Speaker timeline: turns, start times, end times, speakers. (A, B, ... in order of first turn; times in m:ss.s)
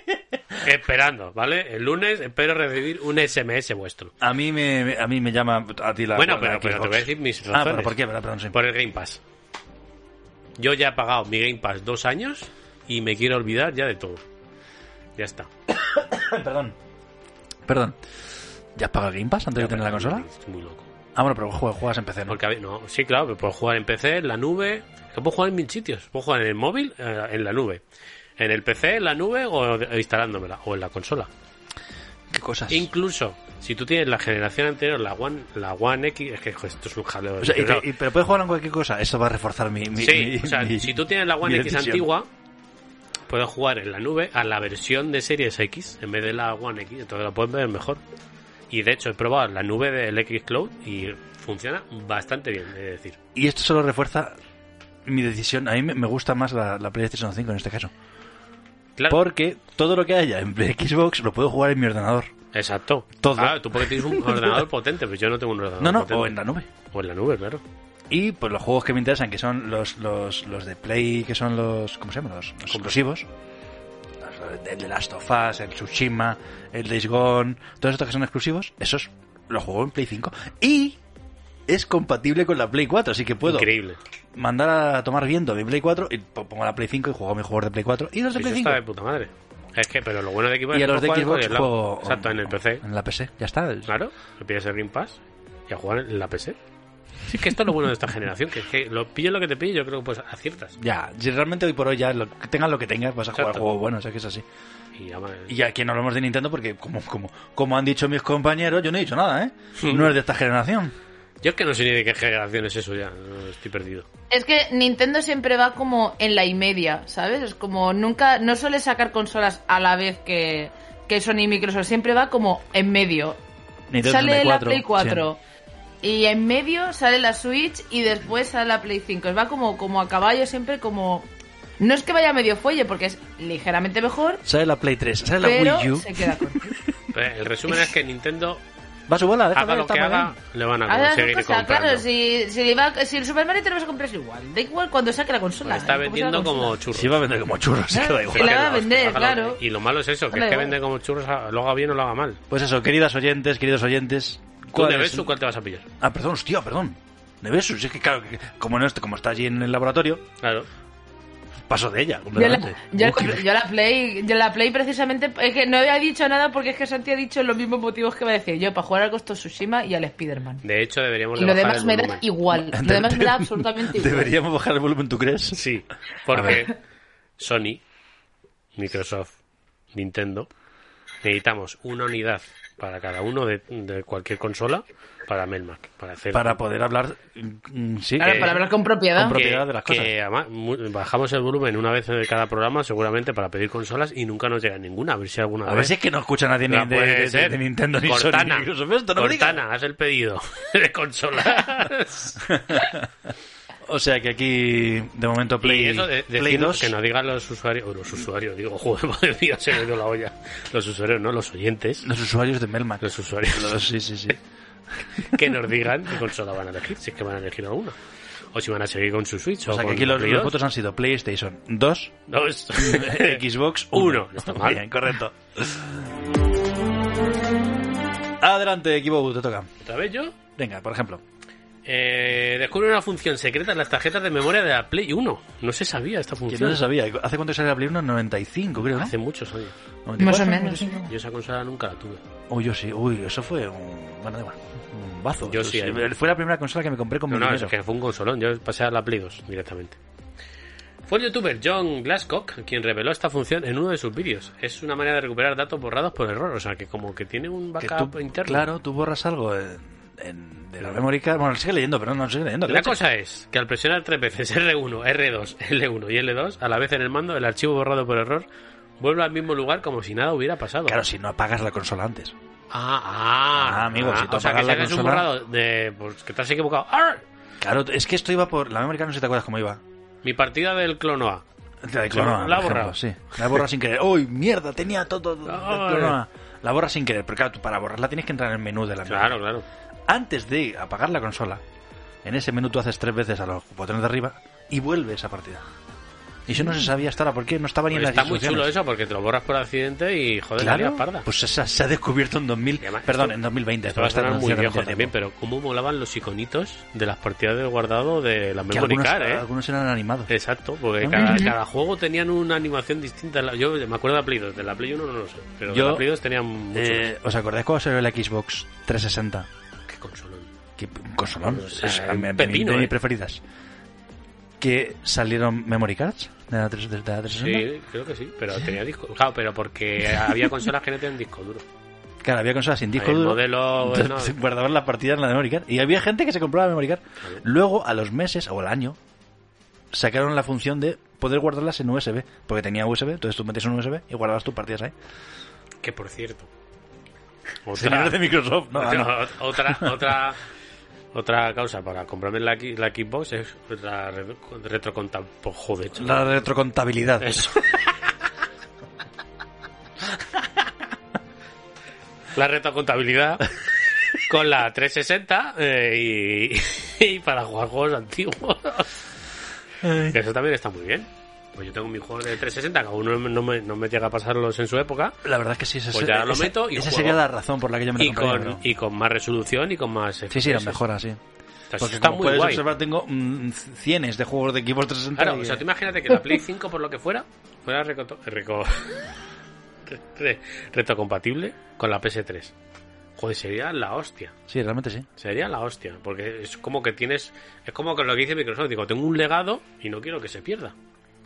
0:00.6-0:04.1 A
0:04.2-0:08.6 B
0:06.2-0:08.0 A
0:08.5-0:09.2 A
0:10.6-0:14.2 A
0:15.2-0:15.5 A
0:15.7-0:16.7 B
0:17.7-0:18.0 B
0:18.8-0:20.2 B
0:19.6-0:20.8 A
0:21.2-0:22.4 B
0:22.3-0:27.8 A
0:28.4-0:31.3 A
0:32.3-0:32.9 B
0:32.7-0:37.9 A
0:37.4-0:42.1 B
0:40.0-0:42.3 A
0:43.3-0:48.0 A
0:48.7-0:53.2 A
0:53.3-0:54.4 B
0:55.0-0:57.9 B
0:59.0-0:59.2 A
0:59.1-1:02.3 B
1:02.5-1:06.4 A
1:03.2-1:04.6 B
1:05.8-1:06.7 B
1:06.9-1:07.6 A
1:08.1-1:13.3 B
1:12.7-1:13.0 A
1:14.2-1:21.0 B
1:21.7-1:23.7 B
1:23.4-1:24.0 A
1:24.3-1:28.8 B
1:28.3-1:32.8 A
1:30.7-1:33.9 B
1:33.9-1:35.2 A
1:35.7-1:36.6 A
1:37.3-1:40.7 A
1:40.8-1:44.4 B
1:43.4-1:43.7 A
1:45.0-1:45.5 A
1:45.5-1:50.9 B
1:49.8-1:50.1 A
1:51.4-1:54.0 A
1:54.3-2:03.4 C
2:03.9-2:05.2 B
2:04.0-2:05.4 C
2:06.0-2:11.3 C
2:11.8-2:14.4 C
2:14.4-2:17.0 B
2:15.4-2:16.6 C
2:17.1-2:18.6 A
2:19.1-2:20.3 B
2:19.5-2:22.0 A
2:20.9-2:26.7 C
2:25.6-2:27.2 A
2:26.9-2:28.8 B
2:27.9-2:29.6 C
2:28.3-2:32.4 A
2:30.3-2:30.7 C
2:32.5-2:35.3 B
2:34.7-2:35.8 A
2:36.0-2:40.2 B
2:40.4-2:40.7 A
2:41.7-2:43.4 B
2:42.3-2:50.6 C
2:50.6-2:52.2 A
2:51.4-2:54.3 C
2:52.7-2:55.6 B
2:55.5-2:56.7 A
2:56.3-2:56.6 B
2:57.4-2:57.8 A
2:58.8-2:59.3 A
2:59.9-3:00.5 A
3:01.2-3:06.6 A
3:06.3-3:08.6 B
3:08.2-3:09.4 C
3:08.2-3:08.6 A
3:09.2-3:10.1 B
3:09.2-3:16.0 A
3:15.6-3:19.6 B
3:16.7-3:22.4 A
3:22.4-3:23.1 B
3:23.9-3:26.9 B
3:25.6-3:32.1 A
3:32.0-3:34.4 B
3:33.0-3:33.8 A
3:35.3-3:38.0 A
3:38.5-3:40.6 A
3:39.6-3:42.2 B
3:42.3-3:43.4 A
3:42.7-3:46.0 B
3:43.9-3:44.8 A
3:48.4-3:49.7 B
3:49.8-3:50.4 A
3:50.6-3:51.2 B
3:51.8-3:56.8 A
3:56.5-3:59.1 B
3:58.9-3:59.7 A
4:00.0-4:01.1 B
4:00.2-4:01.0 C
4:01.1-4:02.2 A
4:02.5-4:07.7 B
4:05.4-4:06.1 A
4:07.3-4:10.0 A
4:11.1-4:18.7 A
4:17.8-4:23.0 B
4:22.7-4:28.4 A
4:29.0-4:31.0 A
4:30.8-4:32.3 B
4:32.7-4:37.2 A
4:33.6-4:35.3 B
4:37.6-4:39.8 B
4:40.2-4:41.4 A
4:41.8-4:49.4 B
4:42.1-4:43.6 A
4:45.4-4:46.2 A
4:49.1-4:49.6 A
4:50.1-4:51.6 B
4:52.2-4:55.6 B
4:56.5-4:58.7 B
4:57.9-5:01.2 A
5:00.6-5:05.1 B
5:02.8-5:03.3 A
5:03.9-5:09.4 A
5:08.7-5:10.3 B
5:10.3-5:17.1 A
5:11.0-5:11.5 B
5:11.2-5:11.5 C
5:15.7-5:16.0 B
5:16.7-5:19.5 B
5:19.9-5:20.5 A
5:20.8-5:23.4 B
5:21.5-5:22.9 A
5:24.6-5:27.7 B
5:27.4-5:31.6 A
5:32.2-5:39.0 B
5:32.9-5:34.4 A
5:39.9-5:44.9 B
5:45.8-5:46.5 A
5:47.6-5:48.2 A
5:47.7-5:50.0 B
5:48.7-5:50.4 A
5:51.1-5:56.4 A
5:56.0-5:57.5 B
5:57.2-5:57.6 A
6:02.3-6:03.4 A
6:04.3-6:08.9 A
6:09.8-6:10.2 B
6:10.1-6:15.1 A
6:15.2-6:18.6 B
6:15.9-6:17.2 A
6:18.0-6:20.8 A
6:20.3-6:21.2 B
6:21.7-6:22.6 A
6:21.8-6:25.6 B
6:25.2-6:29.1 A
6:29.9-6:32.5 A
6:33.2-6:34.3 A
6:34.5-6:35.1 B
6:35.2-6:40.7 A